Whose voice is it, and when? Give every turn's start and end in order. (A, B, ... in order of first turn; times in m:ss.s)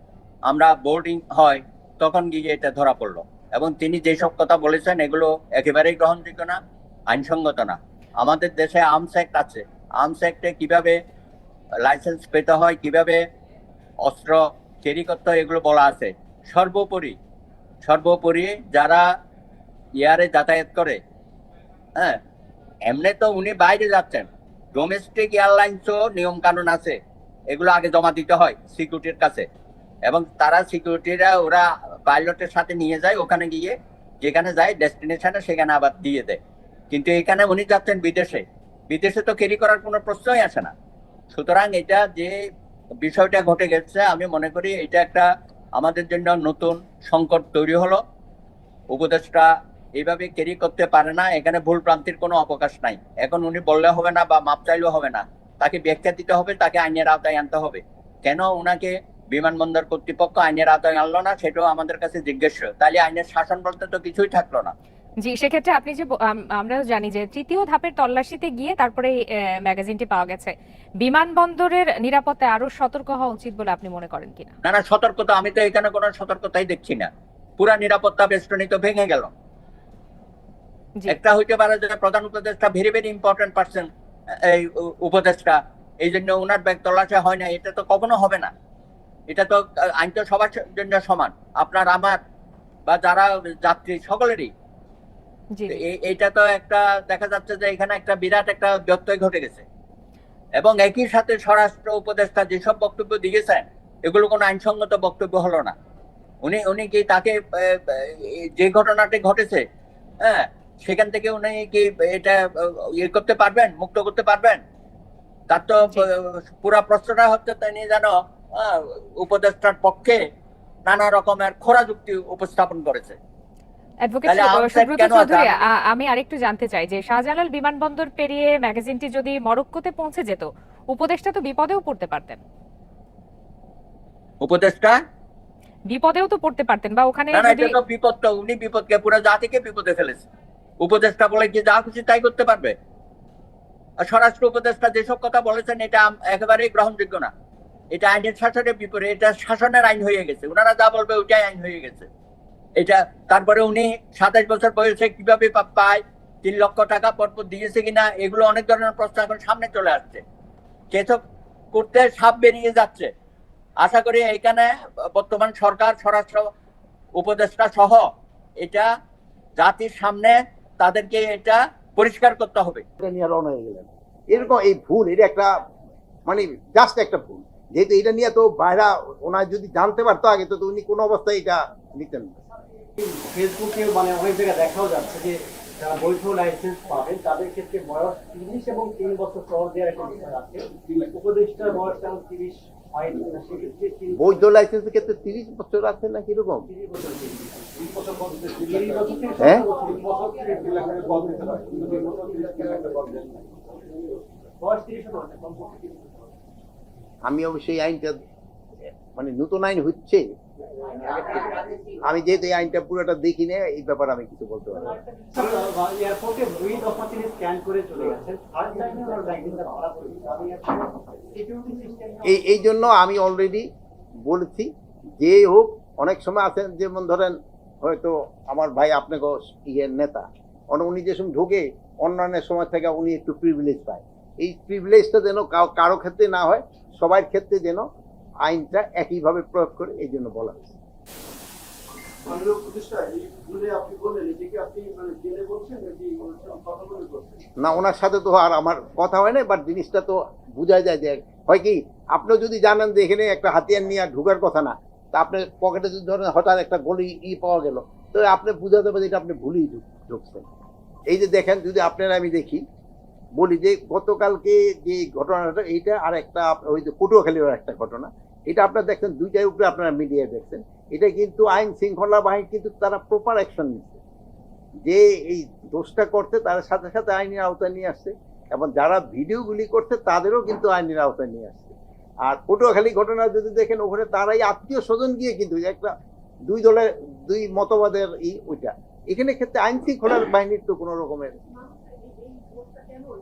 0:00.5-0:06.6 A
0:07.1-0:11.0 A
0:11.8-0:13.2 A
0:14.0-0:17.2 A
0:17.8-0:19.0 A
0:20.0-0:21.0 A
0:22.9-0:27.0 A
0:27.5-0:29.4 A
0:30.0-0:36.4 A
0:36.9-0:40.7 A
0:41.3-0:42.3 A
0:43.0-0:45.2 A
0:45.8-0:48.0 A
0:48.9-0:49.5 A
0:50.0-1:04.7 A
1:05.2-1:14.5 B
1:14.6-1:17.1 A
1:17.6-1:19.3 A
1:21.1-1:23.9 A
1:24.5-1:28.5 A
1:29.3-1:32.2 A
1:32.9-1:34.5 A
1:35.7-1:39.6 A
1:40.6-1:45.7 A
1:46.4-1:49.6 A
1:50.2-1:52.4 A
1:53.0-1:54.6 A
1:55.5-2:00.2 A
2:00.9-2:03.2 A
2:04.0-2:12.4 B
2:04.2-2:05.6 A
2:14.4-2:15.0 A
2:15.9-2:17.7 B
2:17.3-2:20.2 A
2:20.8-2:22.7 A
2:24.0-2:27.3 A
2:27.9-2:32.1 A
2:32.8-2:40.2 A
2:40.9-2:41.2 A
2:41.7-2:43.1 A
2:43.8-2:46.5 A
2:47.2-2:48.1 A
2:49.6-2:52.8 A
2:53.0-2:55.5 C
2:56.2-3:02.3 C
3:03.0-3:14.4 D
3:14.1-3:16.7 C
3:16.7-3:23.7 D
3:17.9-3:18.8 E
3:19.4-3:19.6 C
3:20.7-3:23.4 E
3:24.6-3:26.3 D
3:27.3-3:28.2 C
3:29.1-3:30.2 C
3:31.1-3:31.4 D
3:32.0-3:35.0 C
3:35.2-3:42.4 D
3:42.2-3:43.7 C
3:44.2-3:57.8 C
3:58.4-4:00.7 C
4:02.3-4:07.4 E
4:07.6-4:20.4 C
4:21.1-4:22.6 C
4:23.4-4:34.0 C
4:34.8-4:41.7 C
4:42.2-4:45.9 C
4:46.5-4:51.3 C